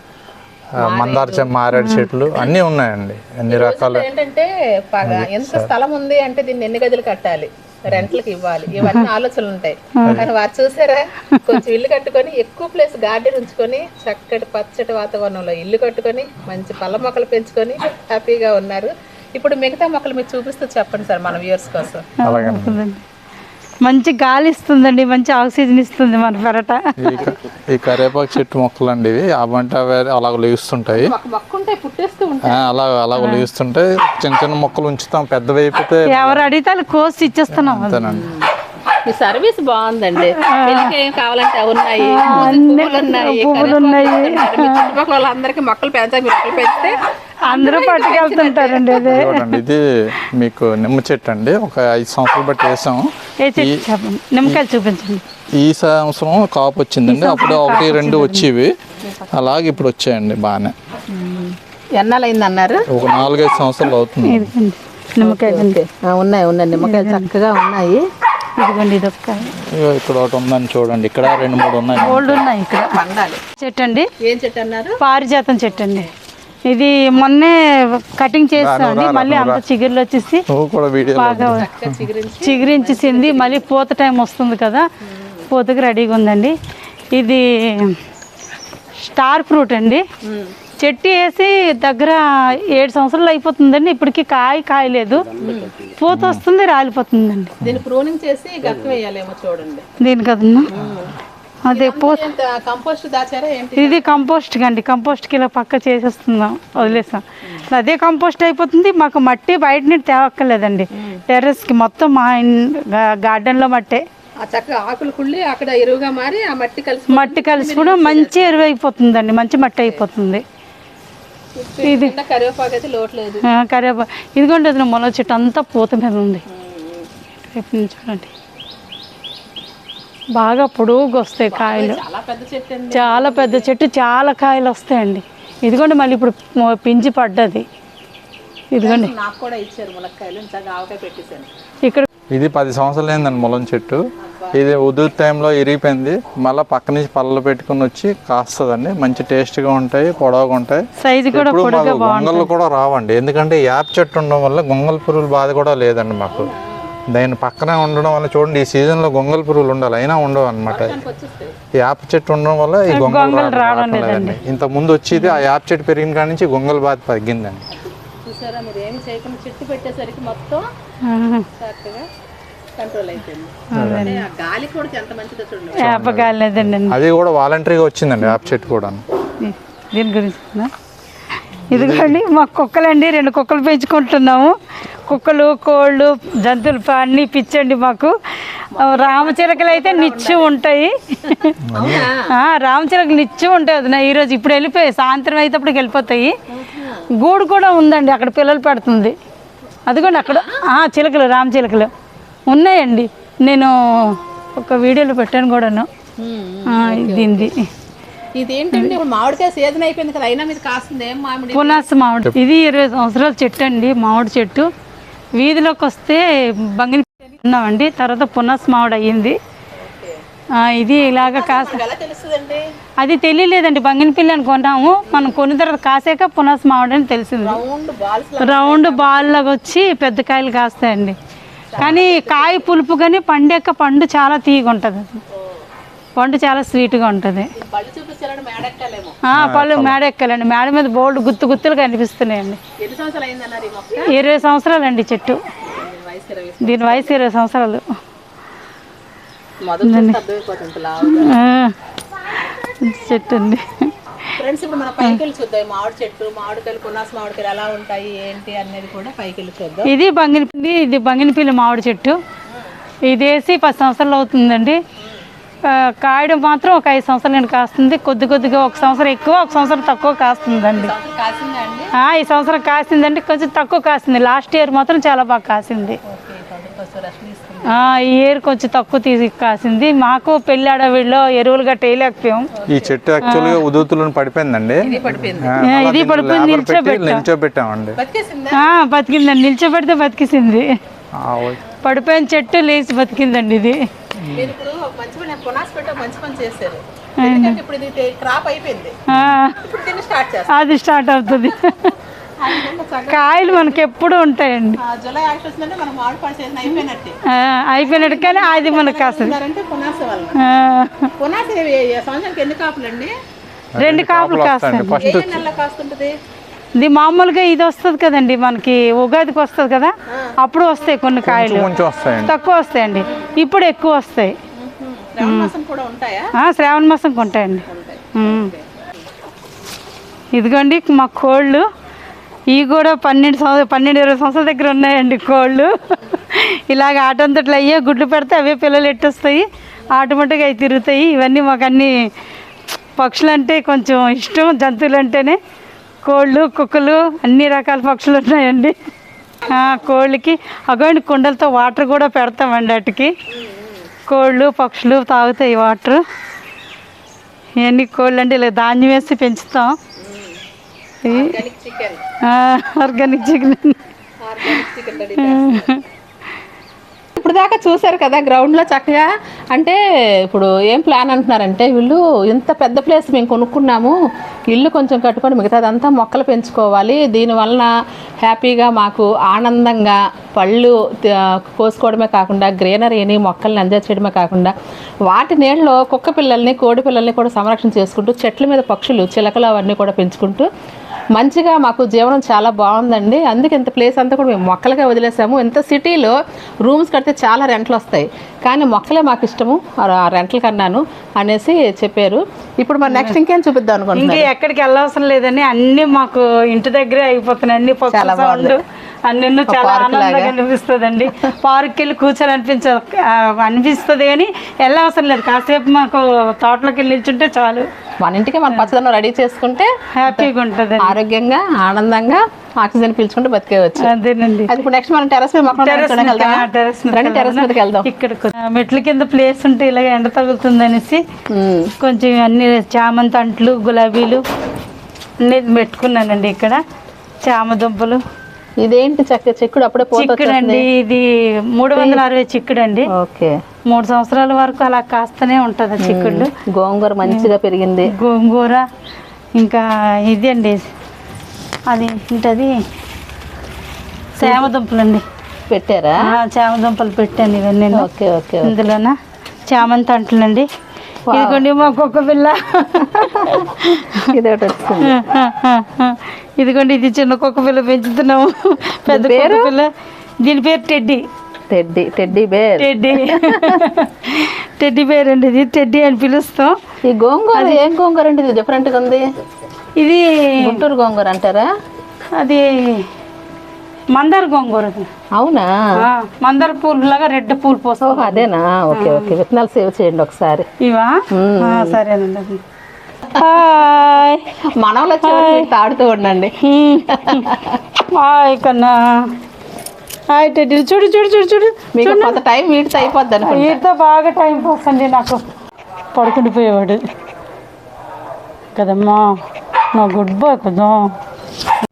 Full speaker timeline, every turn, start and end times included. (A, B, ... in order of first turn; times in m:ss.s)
0:00.8-0:04.1 A
0:00.8-0:01.6 B
0:01.7-0:02.1 C
0:03.5-0:22.1 B
0:05.0-0:05.7 A
0:10.0-0:10.3 C
0:11.3-0:11.6 C
0:22.2-0:23.0 C
0:22.2-0:22.8 A
0:23.8-0:27.4 C
0:27.0-0:31.1 A
0:31.0-0:32.7 B
0:32.5-0:36.5 A
0:33.2-0:33.5 C
0:36.1-0:38.2 C
0:37.5-0:38.3 A
0:38.2-0:38.5 B
0:39.1-0:49.2 B
0:40.2-0:41.0 C
0:42.0-0:45.0 C
0:47.4-0:49.6 C
0:49.0-0:53.8 A
0:53.4-0:55.2 C
0:55.6-0:58.7 A
0:57.1-0:58.5 C
0:59.1-0:59.5 B
0:59.4-1:00.7 A
1:01.1-1:02.9 B
1:02.9-1:04.5 A
1:04.2-1:05.8 C
1:05.2-1:08.0 B
1:06.8-1:07.3 C
1:08.6-1:09.6 C
1:09.6-1:12.4 A
1:12.0-1:13.0 C
1:12.8-1:13.4 B
1:13.6-1:14.1 C
1:14.2-1:14.9 B
1:15.0-1:16.1 C
1:16.7-1:20.5 C
1:18.6-1:19.6 A
1:20.5-1:21.9 A
1:21.1-1:21.7 C
1:21.6-1:23.7 B
1:22.4-1:24.8 C
1:25.1-1:25.5 B
1:25.5-1:26.5 C
1:27.1-1:28.0 C
1:29.0-1:30.0 C
1:30.2-1:30.6 B
1:30.8-1:35.3 C
1:35.4-1:35.7 B
1:35.8-1:37.6 C
1:36.1-1:36.4 A
1:37.7-1:39.9 B
1:40.0-1:40.7 C
1:40.7-1:41.1 B
1:41.7-1:42.3 C
1:41.7-1:44.2 B
1:43.8-1:54.0 C
1:46.8-1:47.6 B
1:54.4-1:58.6 B
1:57.1-2:00.4 C
2:01.6-2:03.4 B
2:01.8-2:02.2 C
2:03.5-2:06.4 C
2:06.5-2:07.1 B
2:07.5-2:08.3 C
2:10.4-2:12.0 C
2:11.4-2:13.7 B
2:12.9-2:17.6 C
2:18.7-2:19.1 C
2:18.8-2:21.5 B
2:22.3-2:24.0 A
2:24.2-2:24.5 B
2:24.6-2:36.5 A
2:31.0-2:32.5 C
2:36.3-2:36.9 B
2:37.1-2:41.0 A
2:40.7-2:41.6 B
2:41.8-2:47.6 A
2:42.9-2:44.4 C
2:45.2-2:45.4 C
2:47.7-2:50.7 B
2:51.1-2:51.5 C
2:51.6-2:52.1 B
2:52.8-2:55.8 B
2:53.7-2:54.2 C
2:53.7-2:54.1 A
2:55.8-2:59.0 A
2:55.8-2:57.0 C
2:59.4-3:00.7 C
3:01.7-3:04.5 C
3:01.7-3:02.2 A
3:05.1-3:08.1 C
3:08.7-3:11.6 C
3:08.8-3:10.5 B
3:11.7-3:12.0 A
3:11.7-3:12.3 B
3:12.3-3:16.3 C
3:16.5-3:17.0 B
3:17.2-3:19.2 C
3:19.9-3:21.9 C
3:20.0-3:20.6 B
3:22.5-3:25.9 C
3:26.2-3:27.5 B
3:26.7-3:27.7 C
3:28.4-3:31.9 B
3:31.5-3:34.7 C
3:35.4-3:39.4 C
3:39.8-3:40.2 B
3:40.6-3:41.8 C
3:41.2-3:42.6 B
3:43.0-3:47.6 C
3:45.1-3:45.4 B
3:47.4-3:49.3 B
3:48.4-3:51.2 C
3:51.7-3:52.7 B
3:51.8-3:55.2 C
3:56.2-3:57.5 C
3:57.6-3:59.2 B
3:59.3-4:02.6 C
3:59.3-4:00.0 A
4:02.8-4:04.1 B
4:04.1-4:05.4 C
4:05.6-4:07.2 B
4:06.6-4:07.8 C
4:09.6-4:11.3 B
4:09.8-4:10.2 C
4:11.0-4:11.8 C
4:12.5-4:13.9 C
4:14.4-4:19.9 B
4:19.8-4:22.2 C
4:23.1-4:24.8 C
4:25.6-4:30.9 C
4:30.7-4:31.9 B
4:31.9-4:36.0 C
4:36.1-4:37.7 B
4:37.7-4:42.5 C
4:42.6-4:43.0 B
4:42.7-4:48.0 A
4:43.2-4:43.6 C
4:44.8-4:45.6 B
4:45.6-4:47.2 C
4:48.0-4:48.7 B
4:48.5-4:50.7 C
4:51.2-4:51.6 A
4:51.8-4:53.8 C
4:54.2-4:54.5 A
4:54.4-4:59.0 B
4:57.2-4:57.6 C
4:59.1-4:59.6 C
4:59.1-4:59.4 A
4:59.6-5:00.6 B
5:00.5-5:02.0 C
5:02.4-5:03.8 B
5:02.5-5:04.8 C
5:04.8-5:07.2 B
5:06.7-5:09.4 C
5:07.8-5:10.4 B
5:10.4-5:11.1 C
5:11.2-5:13.1 B
5:13.8-5:15.4 A
5:13.8-5:15.0 C
5:15.0-5:16.2 B
5:16.8-5:21.7 C
5:21.2-5:22.4 A
5:22.2-5:24.4 C
5:24.6-5:26.3 B
5:25.2-5:25.5 C
5:26.4-5:28.5 C
5:27.7-5:28.6 B
5:30.3-5:31.6 C
5:32.5-5:41.9 C
5:43.0-5:45.4 C
5:46.0-5:48.8 C
5:49.5-5:53.1 C
5:53.3-5:53.9 B
5:54.1-5:56.0 C
5:57.6-5:59.7 C
6:00.0-6:00.4 B
6:01.0-6:01.4 C
6:01.1-6:02.0 B
6:02.3-6:03.8 C
6:04.2-6:05.7 B
6:05.2-6:05.8 C
6:07.2-6:14.0 B
6:14.5-6:17.7 B
6:18.2-6:24.5 B
6:25.1-6:30.5 B
6:31.2-6:44.3 B
6:42.9-6:43.2 C
6:43.9-6:57.7 C
6:47.9-6:48.6 B
6:49.5-6:50.4 B
6:58.0-7:00.3 B
7:00.0-7:00.9 C
7:00.8-7:03.9 B
7:03.8-7:04.5 C
7:04.5-7:07.8 B
7:05.5-7:11.0 C
7:11.3-7:11.7 B
7:11.8-7:14.2 C
7:15.2-7:16.6 C
7:17.2-7:18.0 C
7:18.6-7:20.6 B
7:19.9-7:22.9 C
7:22.9-7:23.3 B
7:23.7-7:26.3 C
7:25.8-7:27.9 B
7:27.0-7:27.3 C
7:27.9-7:28.6 C
7:29.4-7:30.7 C
7:31.7-7:32.5 C
7:34.2-7:35.0 C
7:35.5-7:36.0 B
7:36.1-7:37.9 C
7:37.7-7:38.6 B
7:38.4-7:39.0 C
7:39.5-7:40.5 C
7:41.1-7:41.4 B
7:41.1-7:44.1 C
7:42.8-7:43.5 B
7:44.1-7:44.9 B
7:44.8-7:49.7 C
7:48.9-7:49.5 B
7:50.2-7:51.0 C
7:51.5-7:53.6 B
7:52.6-7:56.5 C
7:56.8-7:59.0 B
7:57.3-7:57.6 C
7:59.8-8:00.6 C
8:00.4-8:01.5 B
8:02.2-8:02.9 C
8:03.9-8:04.9 C
8:05.1-8:05.8 B
8:05.8-8:09.1 C
8:07.8-8:10.5 B
8:10.6-8:12.4 C
8:11.1-8:11.8 B
8:13.1-8:14.2 C
8:14.6-8:16.3 B
8:15.0-8:15.5 C
8:16.4-8:19.2 C
8:16.9-8:17.6 B
8:20.1-8:22.2 C
8:21.8-8:23.6 B
8:23.2-8:25.2 C
8:25.9-8:26.8 C
8:28.6-8:29.1 C
8:29.8-8:30.9 C